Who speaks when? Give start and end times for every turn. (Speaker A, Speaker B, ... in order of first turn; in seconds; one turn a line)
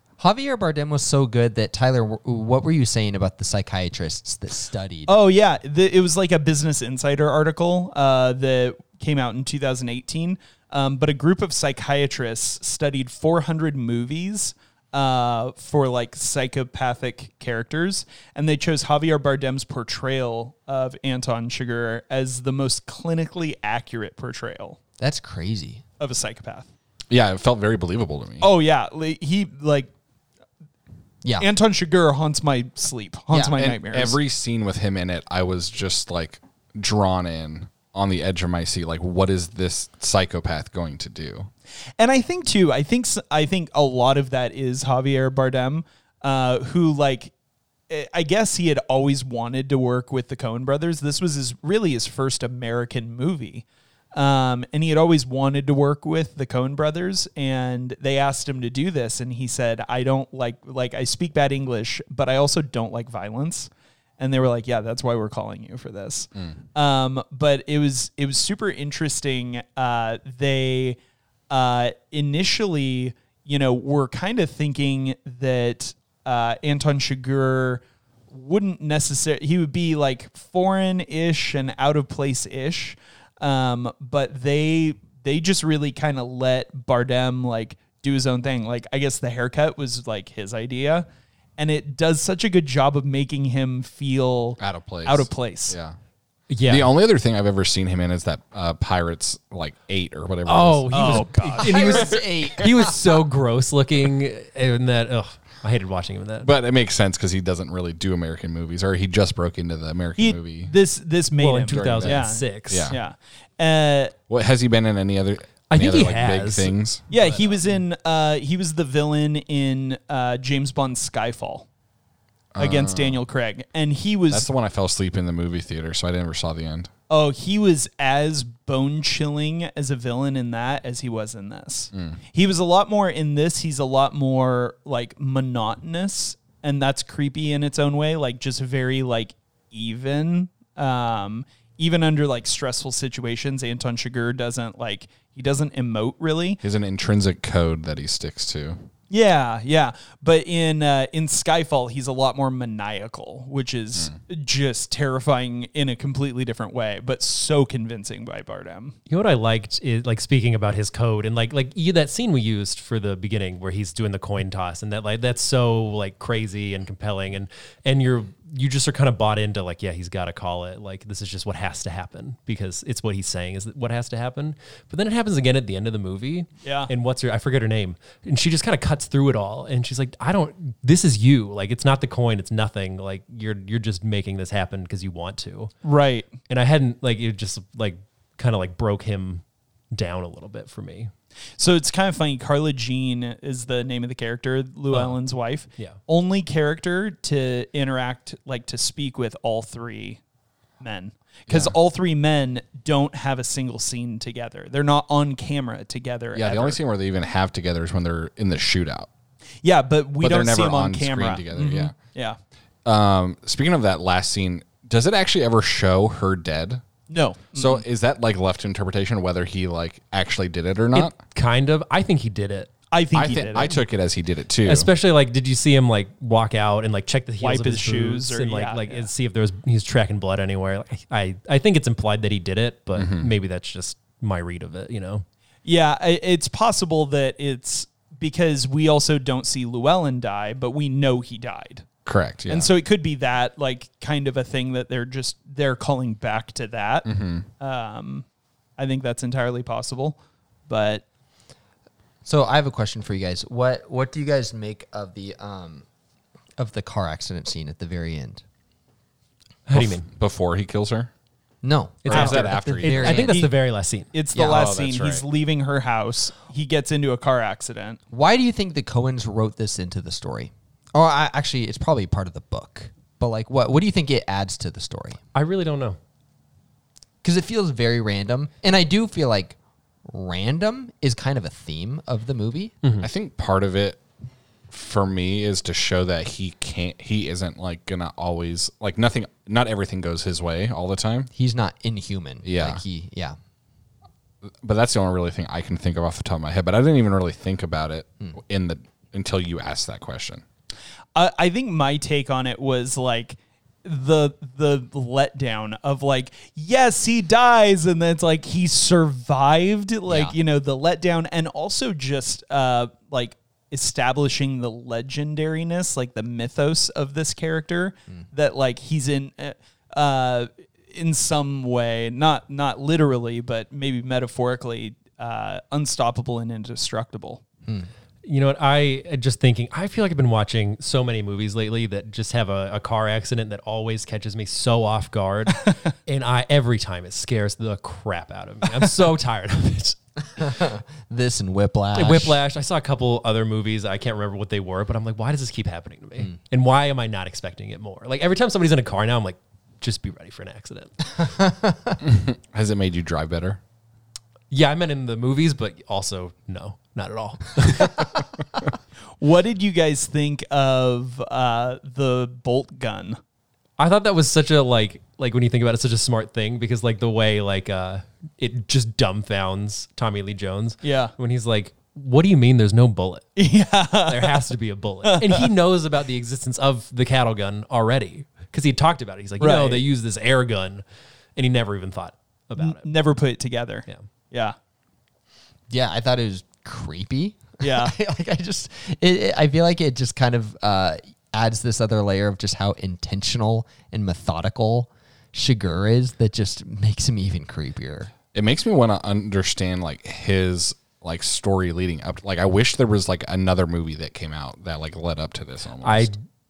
Speaker A: 0.2-5.1
Speaker B: 5.1-24.8
Speaker A: 25.0-25.8
Speaker B: 26.0-26.7
Speaker C: 27.1-28.5
Speaker B: 28.4-29.9
Speaker B: 31.4-34.2
Speaker A: 33.3-33.5
Speaker C: 33.6-41.5
Speaker B: 42.0-47.3
Speaker B: 47.9-71.0
Speaker B: 71.5-91.1
Speaker B: 91.6-95.8
Speaker C: 94.6-96.0
Speaker D: 96.5-96.9
Speaker C: 96.7-101.3
Speaker D: 100.5-106.5
Speaker B: 100.9-102.2
Speaker A: 101.6-103.0
Speaker C: 106.4-110.7
Speaker B: 110.2-114.1
Speaker D: 111.4-112.9
Speaker C: 111.7-113.0
Speaker C: 114.3-117.0
Speaker D: 115.7-116.7
Speaker B: 117.1-121.7
Speaker C: 122.5-123.2
Speaker B: 122.6-124.5
Speaker C: 124.3-126.9
Speaker B: 127.1-146.6
Speaker C: 131.9-132.2
Speaker C: 146.6-148.8
Speaker B: 149.1-159.0
Speaker D: 159.1-185.7
Speaker B: 176.6-176.9
Speaker B: 185.8-186.3
Speaker D: 186.5-191.1
Speaker B: 191.6-200.2
Speaker D: 194.9-195.2
Speaker B: 200.8-206.8
Speaker C: 201.5-201.8
Speaker C: 206.3-209.1
Speaker B: 209.6-212.4
Speaker C: 210.2-211.9
Speaker C: 212.8-216.8
Speaker B: 217.1-217.8
Speaker C: 217.6-221.1
Speaker D: 220.9-222.7
Speaker B: 222.9-223.8
Speaker C: 223.1-224.9
Speaker D: 224.6-235.2
Speaker B: 227.4-229.1
Speaker C: 232.9-233.3
Speaker B: 235.6-241.8
Speaker C: 242.0-242.7
Speaker B: 242.5-247.1
Speaker C: 247.1-247.4
Speaker B: 247.6-248.2
Speaker B: 248.8-250.2
Speaker B: 250.7-251.0
Speaker A: 252.2-255.8
Speaker A: 256.6-258.4
Speaker D: 259.7-260.1
Speaker C: 259.7-261.1
Speaker A: 261.6-263.5
Speaker D: 262.0-264.1
Speaker C: 262.1-263.3
Speaker B: 263.1-263.5
Speaker B: 264.1-268.0
Speaker A: 264.3-264.6
Speaker C: 264.4-265.2
Speaker A: 268.1-275.2
Speaker D: 275.3-276.0
Speaker A: 277.2-279.6
Speaker A: 280.1-282.8
Speaker D: 282.8-283.1
Speaker C: 283.0-284.0
Speaker C: 284.7-291.3
Speaker A: 291.3-293.4
Speaker C: 292.4-292.8
Speaker C: 294.6-300.4
Speaker B: 301.1-327.4
Speaker A: 310.1-310.3
Speaker D: 328.2-340.4
Speaker A: 340.4-342.4
Speaker D: 341.9-350.9
Speaker A: 351.2-352.0
Speaker C: 352.0-353.6
Speaker D: 354.5-358.1
Speaker B: 359.2-363.2
Speaker D: 363.8-373.4
Speaker B: 370.8-371.1
Speaker B: 373.4-374.5
Speaker D: 374.1-380.8
Speaker B: 375.0-375.5
Speaker B: 379.4-379.8
Speaker D: 381.4-382.9
Speaker B: 382.6-384.6
Speaker A: 385.7-398.1
Speaker B: 387.6-387.9
Speaker C: 398.3-406.1
Speaker D: 405.8-406.1